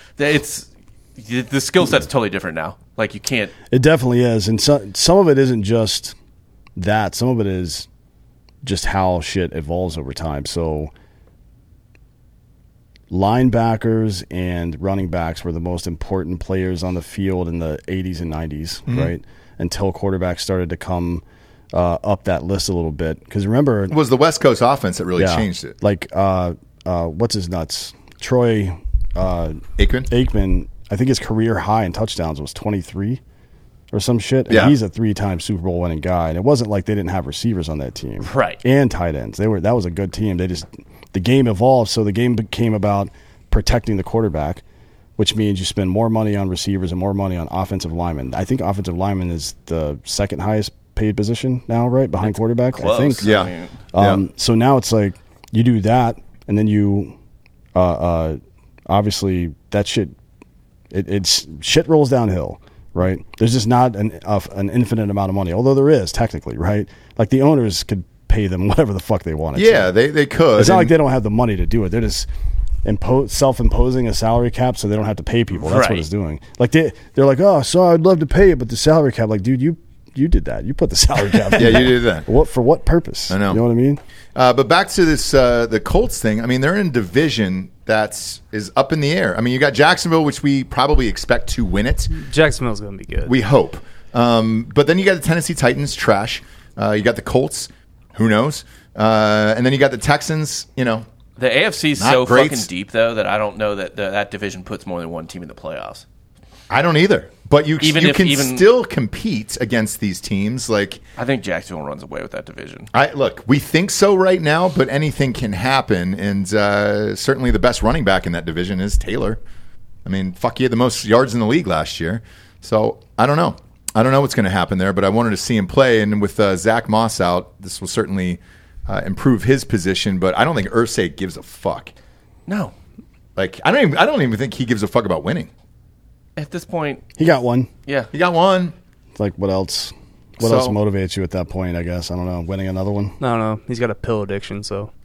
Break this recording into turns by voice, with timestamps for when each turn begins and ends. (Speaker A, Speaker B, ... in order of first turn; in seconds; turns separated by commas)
Speaker A: 0.2-3.5, Speaker B: 3.7-6.2, Speaker B: 6.8-7.9, Speaker B: 8.6-10.9, Speaker B: 13.1-23.9, Speaker C: 23.9-25.7, Speaker B: 25.1-33.2, Speaker C: 29.8-30.1, Speaker B: 33.9-44.6, Speaker C: 34.5-34.8, Speaker A: 38.2-38.6, Speaker B: 45.2-53.3, Speaker A: 52.3-53.8, Speaker C: 53.2-54.2, Speaker B: 53.9-57.1, Speaker B: 57.7-60.1, Speaker B: 60.9-69.9, Speaker C: 69.5-70.9, Speaker B: 70.5-72.3, Speaker B: 72.8-84.0, Speaker A: 75.6-76.0, Speaker C: 81.5-82.3, Speaker C: 83.3-83.6, Speaker C: 84.3-92.1, Speaker D: 92.1-93.3, Speaker C: 93.3-101.0, Speaker A: 101.4-106.0, Speaker C: 102.0-102.7, Speaker C: 106.7-111.0, Speaker A: 107.8-108.7, Speaker A: 111.2-112.9, Speaker C: 112.9-119.4, Speaker C: 120.0-131.9, Speaker A: 132.5-132.7, Speaker C: 133.4-135.5, Speaker A: 136.4-137.2, Speaker B: 137.2-137.7, Speaker A: 137.9-138.1, Speaker C: 138.1-138.7, Speaker B: 139.2-143.2, Speaker C: 140.4-140.8, Speaker D: 143.2-144.9